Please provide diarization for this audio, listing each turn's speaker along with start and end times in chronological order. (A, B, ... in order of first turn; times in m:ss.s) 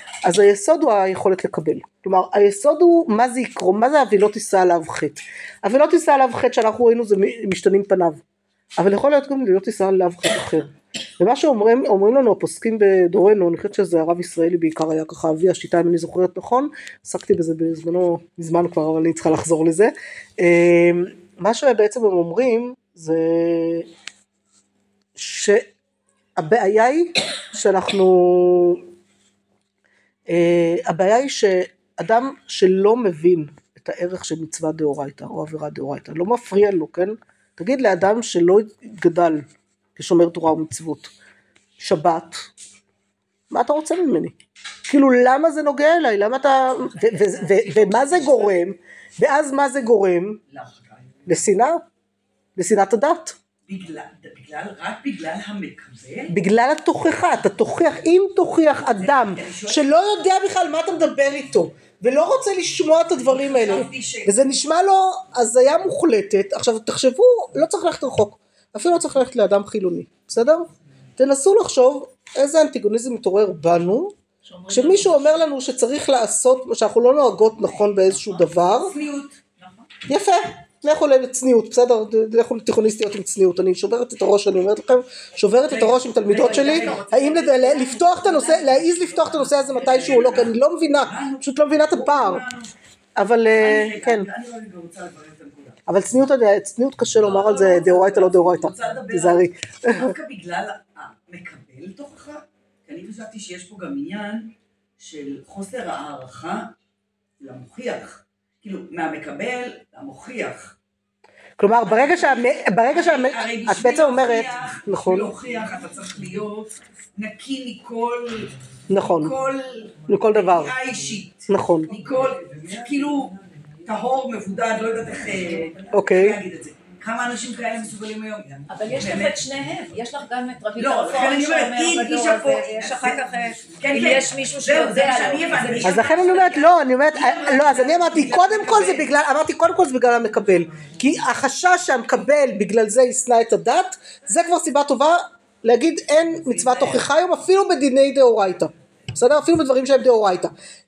0:00.2-0:08.2 A
0:08.8-0:23.9 A
0:25.2-0:25.7 A
0:26.4-0:28.8 A
0:30.3-0:39.4 A
0:40.0-0:41.1 A
0:41.8-0:42.4 A
0:43.5-0:44.3 A
0:44.9-0:50.4 A
0:46.9-0:48.6 B
0:50.5-0:51.5 B
0:51.2-0:51.8 A
0:52.6-0:53.4 A
0:53.7-0:56.4 B
0:56.3-1:14.1 A
0:58.7-0:59.8 B
1:03.1-1:04.6 B
1:14.4-1:15.5 C
1:14.7-1:18.9 A
1:17.6-1:19.9 B
1:20.1-1:32.4 A
1:25.7-1:27.1 B
1:26.3-1:29.1 C
1:28.9-1:32.7 B
1:30.0-1:30.4 C
1:33.2-1:34.3 A
1:33.6-1:35.8 B
1:35.9-1:40.1 A
1:37.2-1:46.7 B
1:47.4-1:50.7 B
1:51.6-1:55.4 A
1:51.8-2:09.7 B
1:58.9-1:59.3 A
2:00.1-2:00.8 A
2:01.5-2:01.9 A
2:05.9-2:06.4 A
2:08.7-2:16.8 C
2:10.8-2:19.1 B
2:15.8-2:30.5 A
2:26.4-2:27.0 B